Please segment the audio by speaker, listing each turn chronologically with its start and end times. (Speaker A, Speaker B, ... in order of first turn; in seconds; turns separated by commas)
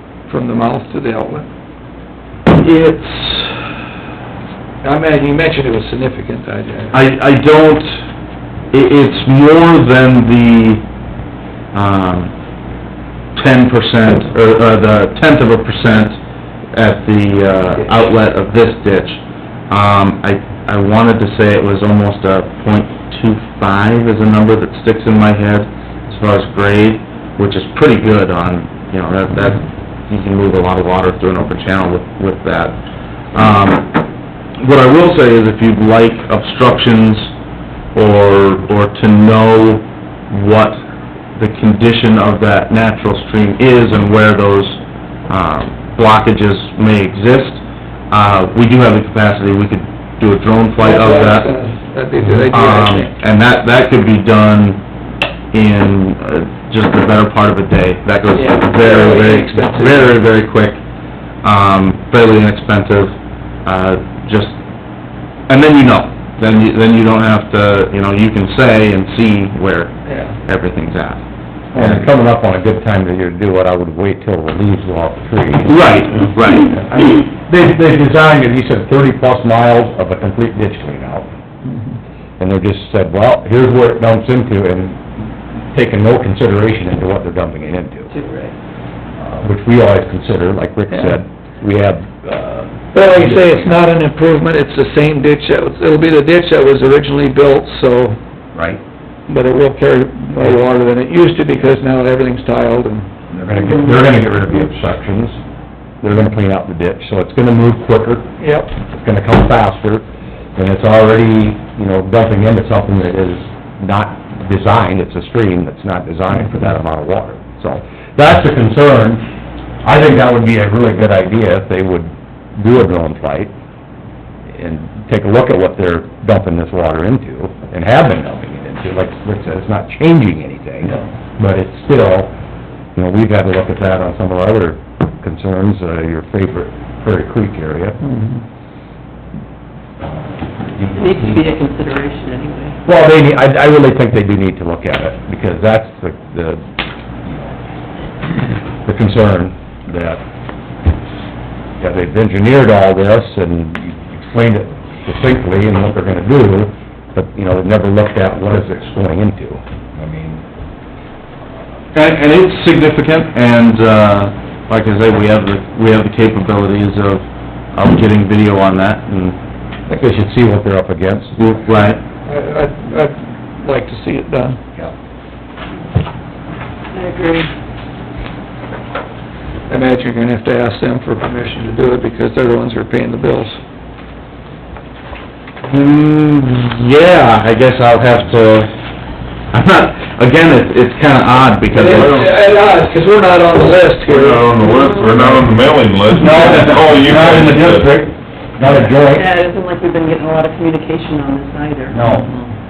Speaker A: 0.3-1.5, Speaker B: 2.5-3.8, Speaker A: 4.8-7.0, Speaker B: 6.9-8.1, Speaker B: 8.7-10.8, Speaker B: 11.7-12.3, Speaker B: 13.3-16.2, Speaker B: 16.7-32.8, Speaker B: 33.3-33.9, Speaker B: 34.6-37.3, Speaker B: 38.0-40.8, Speaker B: 41.4-51.5, Speaker A: 50.8-53.2, Speaker B: 52.5-54.8, Speaker B: 55.5-60.8, Speaker A: 58.3-60.3, Speaker B: 61.4-64.6, Speaker B: 65.5-71.2, Speaker A: 70.0-70.4, Speaker B: 71.7-72.1, Speaker C: 71.7-81.3, Speaker B: 75.7-76.8, Speaker C: 82.4-88.1, Speaker D: 88.1-88.5, Speaker C: 89.2-93.9, Speaker A: 92.9-98.2, Speaker C: 98.5-98.8, Speaker A: 99.3-103.1, Speaker C: 103.3-105.4, Speaker C: 106.0-110.0, Speaker A: 108.4-108.7, Speaker C: 110.6-119.2, Speaker C: 119.8-123.5, Speaker C: 124.5-132.3, Speaker C: 133.0-138.0, Speaker A: 138.0-138.4, Speaker C: 140.0-141.5, Speaker D: 140.9-142.8, Speaker C: 142.8-146.6, Speaker C: 147.2-147.5, Speaker C: 148.8-150.2, Speaker C: 151.8-160.4, Speaker B: 161.9-169.4, Speaker C: 169.9-171.4, Speaker B: 171.4-172.0, Speaker A: 172.2-174.6, Speaker D: 176.9-177.5, Speaker A: 179.7-183.6, Speaker B: 185.7-188.7, Speaker B: 189.5-192.3, Speaker A: 191.7-194.6, Speaker E: 191.8-192.4, Speaker E: 194.0-198.1, Speaker C: 196.1-199.3, Speaker D: 199.0-202.0, Speaker C: 201.9-202.3, Speaker A: 202.0-202.5